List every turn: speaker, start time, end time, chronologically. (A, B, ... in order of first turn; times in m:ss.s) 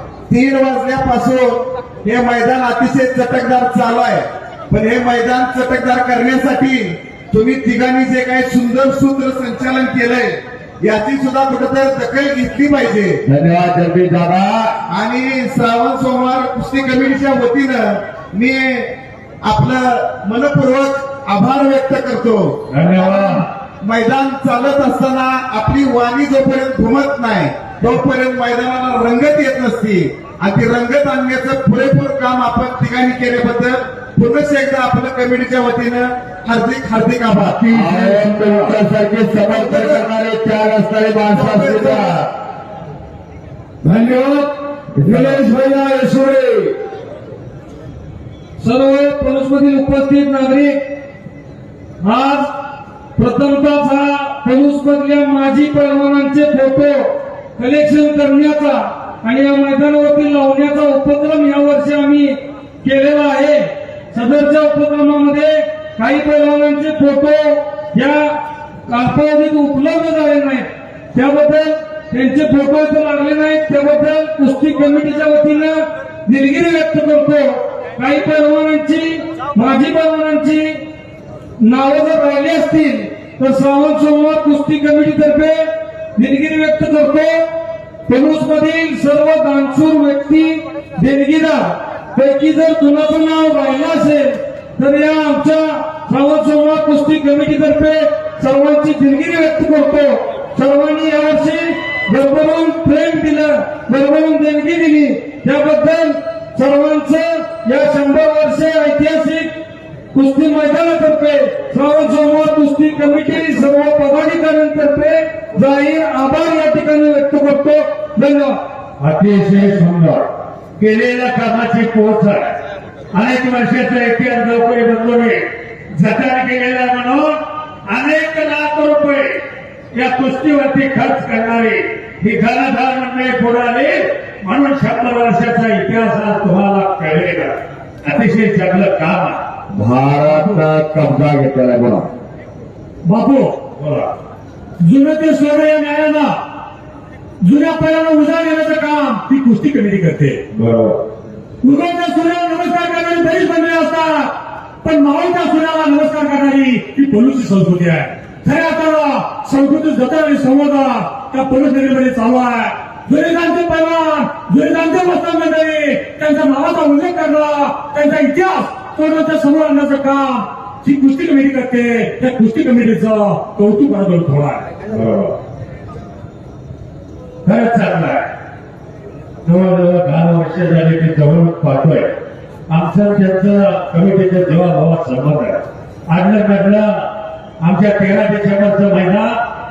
0:00.3-0:13.2 A
0:13.2-0:14.7 B
0:14.9-0:18.9 A
0:19.4-0:37.7 A
0:22.7-0:23.5 C
0:37.7-0:42.2 B
0:37.8-0:38.6 D
0:39.5-0:40.0 A
0:41.3-0:42.2 A
0:43.8-0:46.8 E
0:45.0-0:45.4 B
0:48.6-0:50.8 D
0:52.0-0:52.5 D
0:53.2-1:20.8 D
1:21.6-1:27.5 D
1:28.0-1:49.5 D
1:50.1-1:58.6 D
1:59.0-2:02.6 C
2:03.1-2:09.4 C
2:10.0-2:19.4 C
2:19.7-2:22.1 B
2:23.1-2:24.1 C
2:24.8-2:26.3 D
2:27.4-2:30.4 D
2:30.4-2:31.0 C
2:31.6-2:34.3 D
2:34.8-2:54.5 D
2:52.4-2:55.4 C
2:57.4-2:58.3 C
2:59.4-3:09.4 C